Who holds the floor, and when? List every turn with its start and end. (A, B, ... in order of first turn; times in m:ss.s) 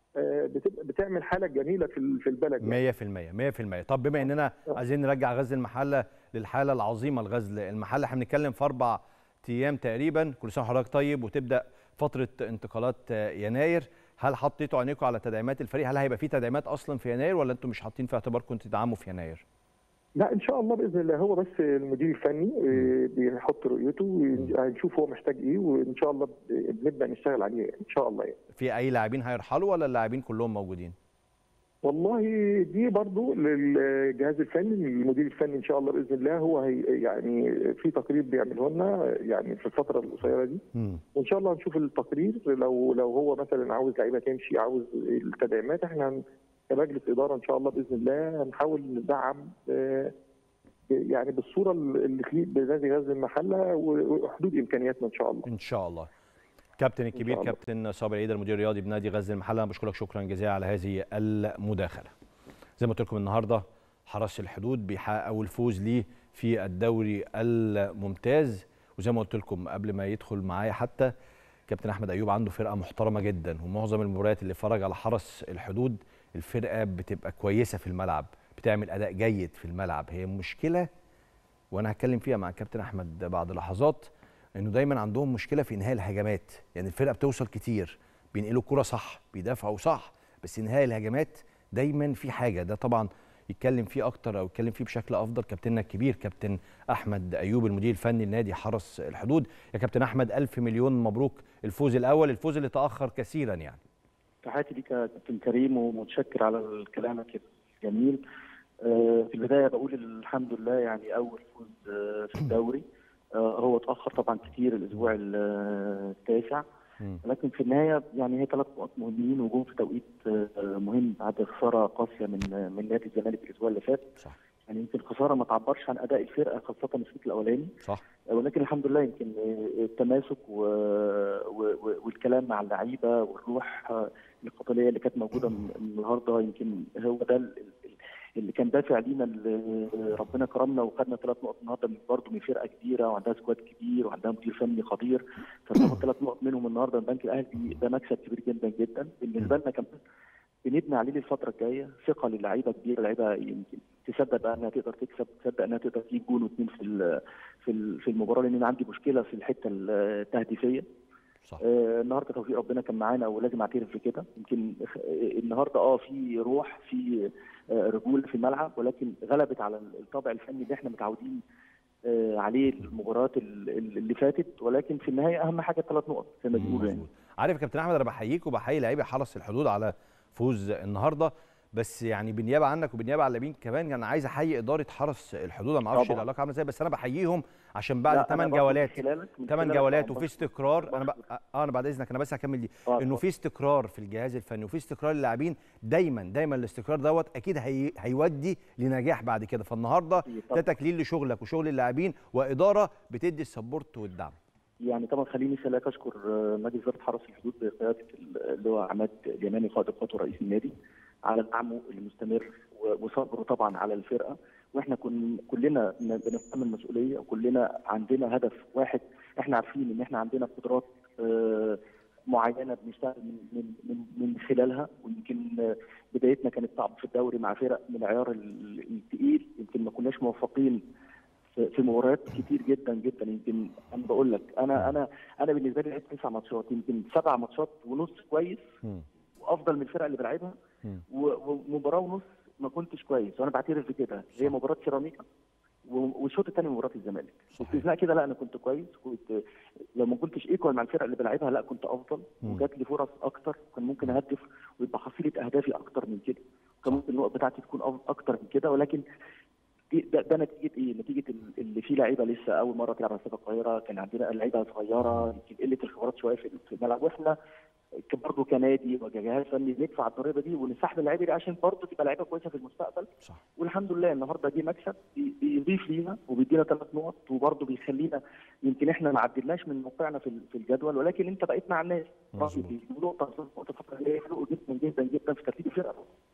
0:00.2-0:02.8 A
0:02.6-0:19.4 B
0:20.2-0:28.4 A
0:28.6-0:31.0 B
0:31.8-0:40.6 A
0:40.7-0:41.0 B
0:41.1-0:46.2 A
0:46.7-0:50.1 A
0:50.9-0:55.5 A
0:55.5-0:56.1 B
0:56.8-1:02.1 B
0:57.2-0:57.5 A
1:02.8-1:11.1 B
1:11.7-1:20.9 B
1:21.7-1:43.8 B
1:44.4-1:48.2 C
1:48.8-1:52.8 C
1:53.3-1:56.6 C
1:57.2-2:04.1 C
2:04.7-2:07.7 C
2:08.3-2:30.0 C
2:30.6-2:40.8 C
2:41.6-2:51.4 C
2:52.0-2:57.0 C
2:56.5-3:24.3 B
3:05.9-3:06.2 C
3:08.1-3:11.2 C
3:12.9-3:13.2 C
3:20.2-3:20.7 C
3:24.8-3:30.7 C
3:31.2-3:50.8 C
3:51.6-3:58.6 C
3:59.4-4:00.6 C
4:01.1-4:05.2 C
4:05.8-4:09.4 C
4:07.5-4:07.8 B
4:10.0-4:19.0 C
4:19.9-4:27.3 C
4:28.1-4:46.1 C
4:42.3-4:42.7 B